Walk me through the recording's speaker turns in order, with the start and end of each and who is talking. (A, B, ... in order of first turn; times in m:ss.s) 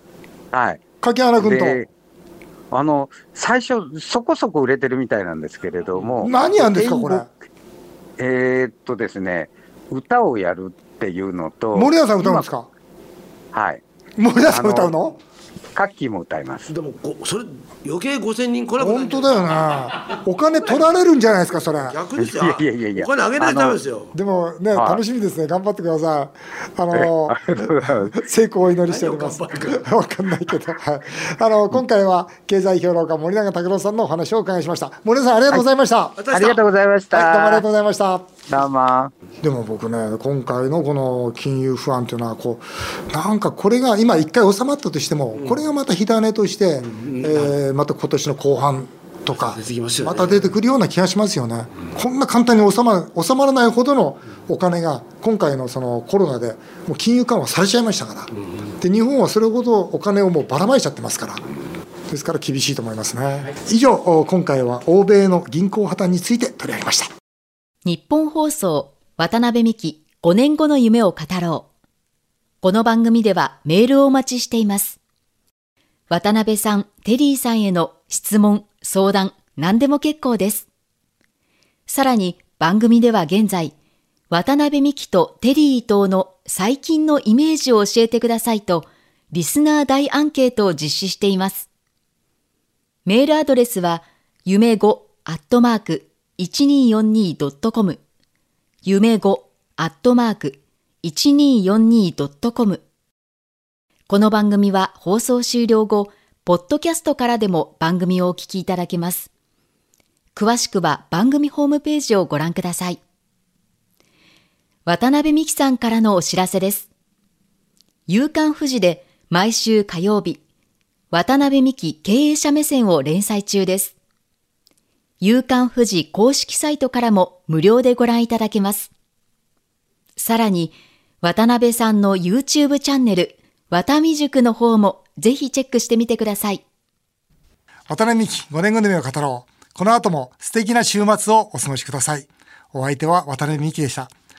0:00.5-0:00.8 A
0:01.0-0:01.8 B
0:01.4-0:01.9 A
0:02.7-0:07.3 A
0:05.9-0:06.4 C
0:06.2-0:07.3 B
0:08.2-0:12.5 A
0:11.7-0:12.7 B
0:13.5-0:13.8 A
0:14.2-0:15.2 B
0:14.5-0:15.0 A
0:15.7-0:16.7 A
0:16.7-0:19.6 C
0:18.8-0:22.0 B
0:21.7-0:24.1 C
0:22.2-0:23.8 A
0:24.1-0:36.2 B
0:24.7-0:25.0 A
0:26.9-0:28.2 A
0:28.8-0:29.9 C
0:36.2-0:36.6 C
0:36.3-0:37.6 A
0:37.1-0:38.3 B
0:38.5-0:39.1 A
0:39.4-1:01.4 B
0:45.3-0:45.6 C
0:46.8-0:47.6 C
0:49.3-0:50.6 C
1:02.1-1:07.1 B
1:07.8-1:11.7 D
1:12.6-1:15.0 D
1:16.1-1:20.6 D
1:21.9-1:23.7 D
1:24.3-1:31.7 D
1:33.0-1:38.0 D
1:38.8-1:42.8 D
1:44.1-1:49.3 D
1:50.3-1:53.0 D
1:54.8-1:56.9 D
1:58.1-2:00.4 D
2:01.1-2:03.9 D
2:05.2-2:08.9 D
2:10.2-2:16.6 D
2:17.9-2:24.1 B